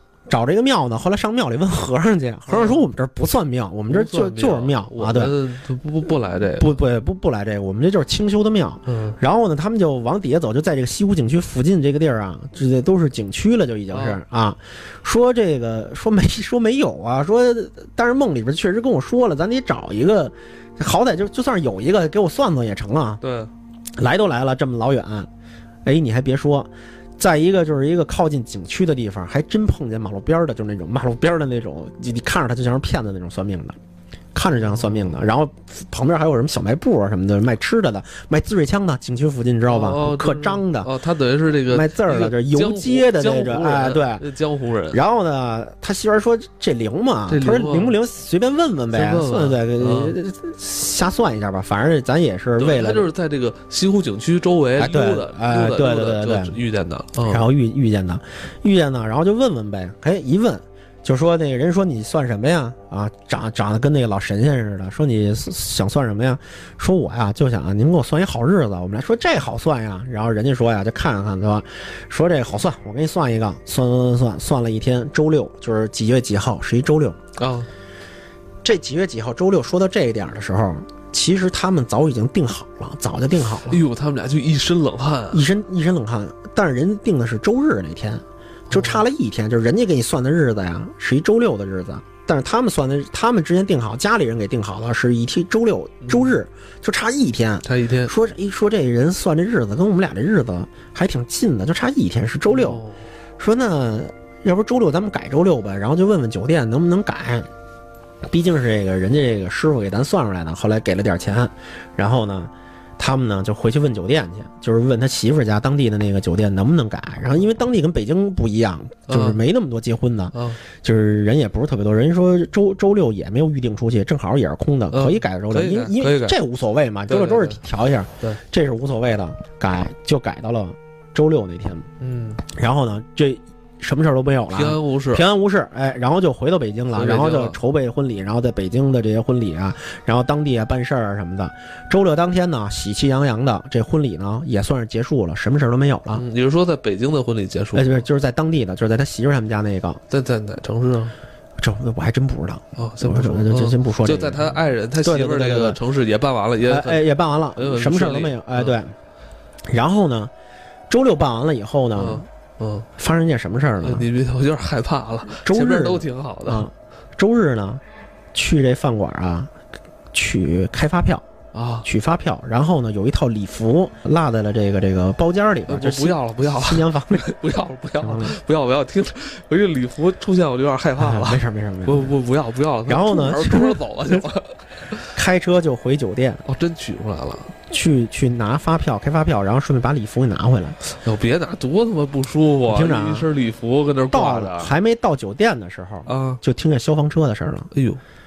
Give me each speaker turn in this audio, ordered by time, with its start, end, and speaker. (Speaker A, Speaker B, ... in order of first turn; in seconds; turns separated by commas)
Speaker A: 0.3-5.3, Speaker B: 2.5-2.8, Speaker B: 3.9-6.8, Speaker A: 6.6-23.2, Speaker B: 8.8-9.2, Speaker B: 13.9-14.2, Speaker B: 23.2-23.5, Speaker A: 24.0-25.3, Speaker A: 25.8-33.8, Speaker A: 34.3-40.9, Speaker B: 34.6-35.1, Speaker B: 39.7-45.0, Speaker A: 41.7-44.2, Speaker A: 44.9-53.1, Speaker B: 47.3-48.0, Speaker B: 48.9-50.2, Speaker B: 52.6-57.4, Speaker A: 54.8-56.6, Speaker A: 57.2-77.2, Speaker B: 77.4-77.7, Speaker A: 78.6-83.8, Speaker B: 83.7-85.4, Speaker A: 85.3-102.8, Speaker B: 88.7-89.0, Speaker B: 96.0-96.3, Speaker B: 97.6-98.1, Speaker B: 102.5-103.0, Speaker A: 103.4-107.5, Speaker A: 108.3-131.8, Speaker B: 119.1-119.4, Speaker B: 120.3-120.6, Speaker B: 124.9-126.4, Speaker B: 127.1-127.6, Speaker B: 132.0-132.4, Speaker A: 132.5-146.2, Speaker B: 134.5-135.2, Speaker B: 136.9-137.6, Speaker B: 146.2-148.0, Speaker A: 147.7-150.0, Speaker B: 150.1-151.1, Speaker A: 151.6-155.8, Speaker B: 152.8-158.8, Speaker A: 156.6-158.9, Speaker A: 159.7-160.3, Speaker A: 160.9-162.2, Speaker B: 161.9-162.9, Speaker A: 163.0-164.1, Speaker B: 163.8-166.7, Speaker A: 165.4-167.8, Speaker A: 168.3-169.5, Speaker A: 170.1-171.2, Speaker B: 171.5-171.9, Speaker A: 171.8-177.2, Speaker B: 175.7-185.1, Speaker A: 178.0-178.3, Speaker A: 181.0-182.1, Speaker A: 182.9-184.2, Speaker A: 185.1-186.4, Speaker B: 186.4-187.5, Speaker A: 187.7-190.8, Speaker B: 190.8-194.7, Speaker A: 192.7-193.3, Speaker A: 194.1-197.7, Speaker B: 196.1-196.4, Speaker B: 197.7-198.0